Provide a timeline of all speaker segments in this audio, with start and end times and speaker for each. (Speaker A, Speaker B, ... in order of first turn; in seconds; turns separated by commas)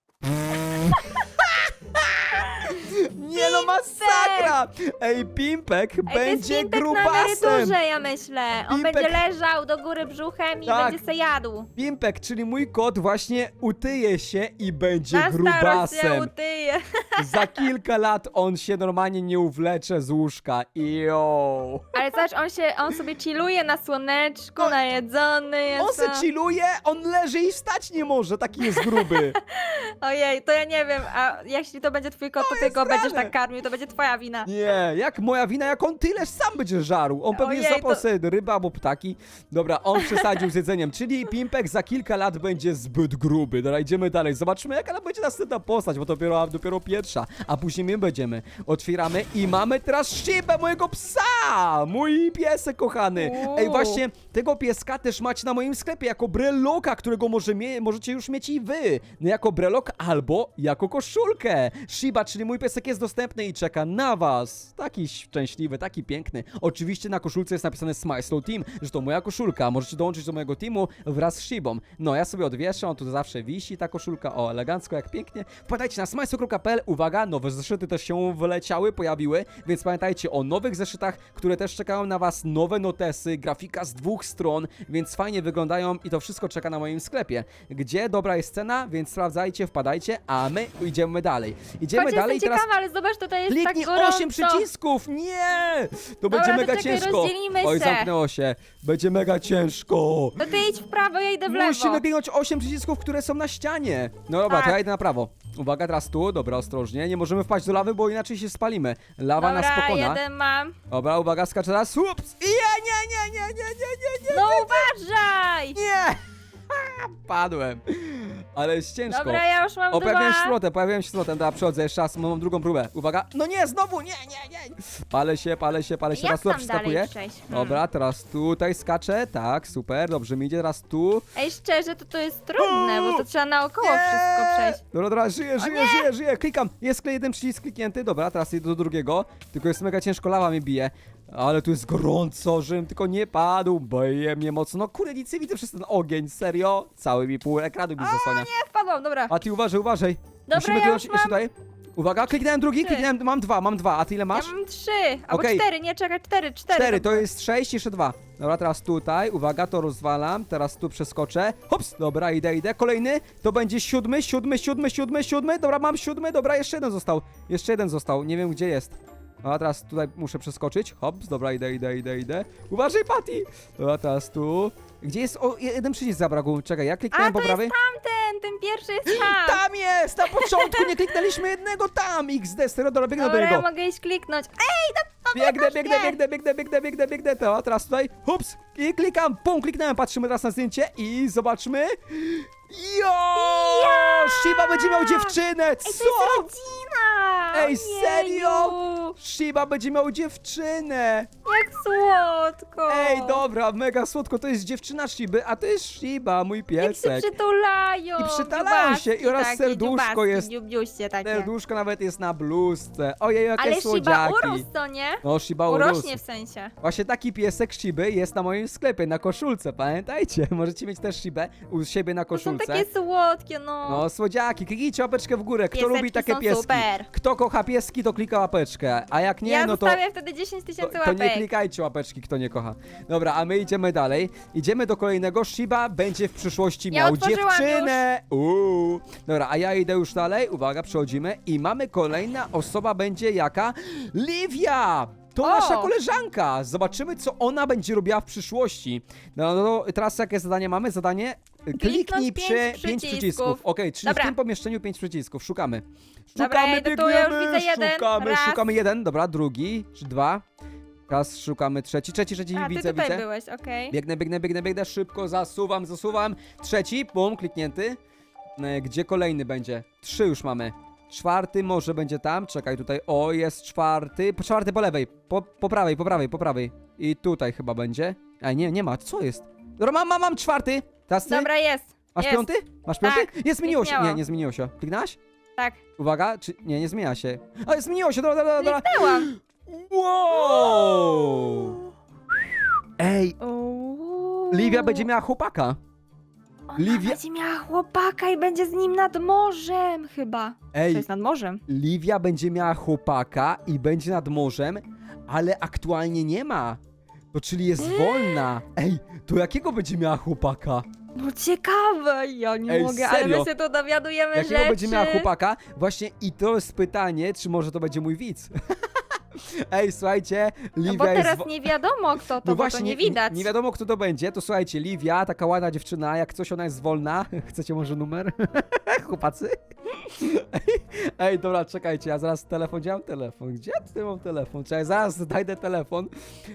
Speaker A: 0.3-7.8, Speaker B: 3.3-4.5, Speaker B: 6.1-11.7, Speaker A: 8.7-9.2, Speaker A: 10.7-11.0, Speaker A: 11.8-16.3, Speaker B: 15.1-17.6, Speaker A: 17.2-22.0, Speaker B: 21.9-26.2, Speaker A: 25.8-29.4, Speaker B: 28.7-34.5, Speaker A: 32.4-33.3, Speaker A: 34.5-92.6, Speaker B: 37.3-38.0, Speaker B: 53.1-54.0, Speaker B: 91.9-94.6, Speaker A: 93.5-100.5, Speaker B: 96.3-98.1, Speaker B: 100.4-102.0, Speaker A: 101.5-110.2, Speaker B: 104.5-104.8, Speaker B: 109.4-110.7, Speaker A: 110.9-114.9, Speaker B: 114.3-115.8, Speaker A: 115.7-131.2, Speaker B: 119.1-120.5, Speaker B: 126.1-127.8, Speaker B: 131.3-134.8, Speaker A: 132.6-133.2, Speaker A: 133.8-148.5, Speaker B: 135.6-136.1, Speaker B: 148.0-149.3, Speaker A: 149.3-154.5, Speaker B: 150.5-151.4, Speaker B: 152.8-153.1, Speaker B: 154.3-157.2, Speaker A: 155.3-155.6, Speaker A: 156.7-177.7, Speaker B: 177.1-179.6, Speaker A: 179.1-183.6, Speaker B: 180.3-181.3, Speaker B: 183.2-186.2, Speaker A: 185.3-196.5, Speaker B: 193.4-199.2, Speaker A: 197.5-201.3, Speaker B: 201.4-203.4, Speaker A: 202.9-207.3, Speaker B: 206.8-211.5, Speaker A: 208.2-210.5, Speaker A: 211.2-214.6, Speaker B: 213.6-216.7, Speaker A: 215.2-216.2, Speaker A: 216.8-222.9, Speaker B: 222.3-224.1, Speaker A: 223.8-230.0, Speaker B: 225.7-227.1, Speaker B: 229.4-231.4, Speaker A: 230.8-260.4, Speaker B: 236.9-238.0, Speaker B: 245.4-245.9, Speaker B: 251.8-254.3, Speaker B: 256.4-258.7, Speaker A: 261.1-263.2, Speaker B: 262.5-263.9, Speaker A: 263.9-268.0, Speaker A: 268.6-281.5, Speaker B: 281.2-282.5, Speaker A: 282.1-285.2, Speaker B: 283.0-284.2, Speaker A: 286.0-291.8, Speaker B: 288.6-289.3, Speaker B: 290.3-291.9, Speaker A: 293.0-293.4, Speaker B: 293.4-295.1, Speaker A: 294.5-295.8, Speaker B: 296.7-301.6, Speaker A: 296.8-297.2, Speaker A: 300.7-301.1, Speaker A: 301.7-306.8, Speaker A: 307.3-310.9, Speaker B: 307.8-308.5, Speaker B: 311.1-315.3, Speaker A: 312.7-313.5, Speaker A: 314.3-318.5, Speaker A: 319.3-321.5, Speaker B: 320.8-323.5, Speaker A: 322.4-336.1